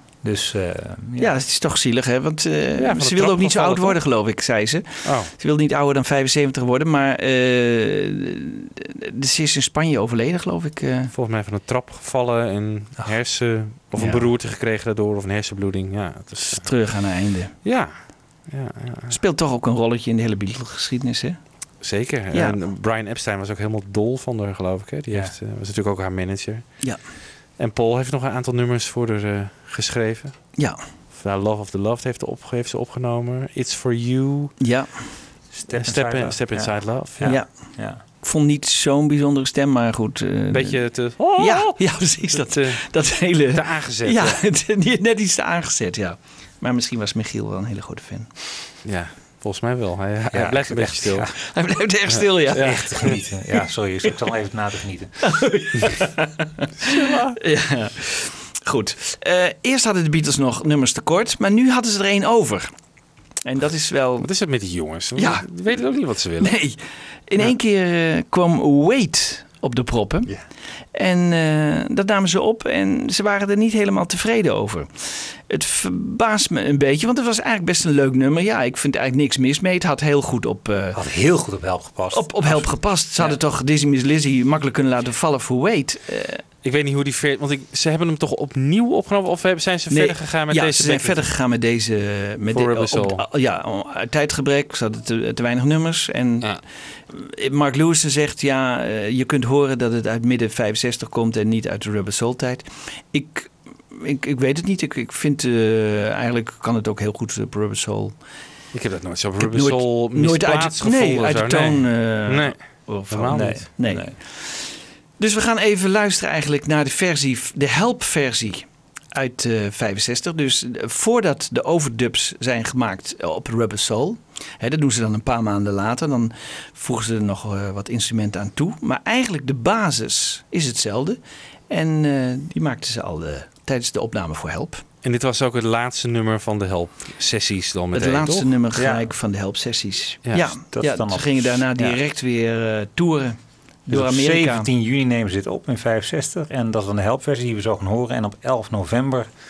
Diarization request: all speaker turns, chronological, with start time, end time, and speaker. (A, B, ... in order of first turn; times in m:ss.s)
0:00.2-0:01.3 A
0:01.2-0:11.1 B
0:02.8-0:04.0 C
0:05.0-0:05.3 C
0:11.1-0:16.9 C
0:14.0-0:14.3 B
0:16.4-0:17.5 B
0:17.6-0:19.2 C
0:19.1-0:21.4 B
0:21.8-0:27.0 C
0:22.3-0:22.6 B
0:25.1-0:25.3 A
0:27.6-0:30.6 C
0:30.6-0:30.8 B
0:31.1-0:34.6 C
0:34.6-0:35.1 B
0:35.5-0:38.0 A
0:35.8-0:37.4 C
0:37.2-0:48.5 B
0:40.5-0:42.8 C
0:43.3-0:44.4 C
0:48.8-0:51.4 C
0:50.3-0:51.4 A
0:51.5-0:53.2 B
0:52.2-0:53.2 C
0:52.6-0:55.4 A
0:55.3-0:56.3 B
0:57.4-1:02.7 B
1:03.4-1:04.3 B
1:04.2-1:06.6 C
1:05.2-1:10.4 B
1:10.9-1:21.0 B
1:20.9-1:23.4 A
1:22.1-1:26.4 B
1:26.6-1:31.3 C
1:29.9-1:48.2 B
1:32.5-1:33.2 C
1:48.7-1:53.6 C
1:49.4-2:14.8 B
1:53.3-1:54.2 A
2:15.0-2:18.5 C
2:17.9-2:24.7 B
2:18.8-2:19.0 A
2:20.3-2:20.5 C
2:20.7-2:22.0 A
2:23.9-2:29.3 A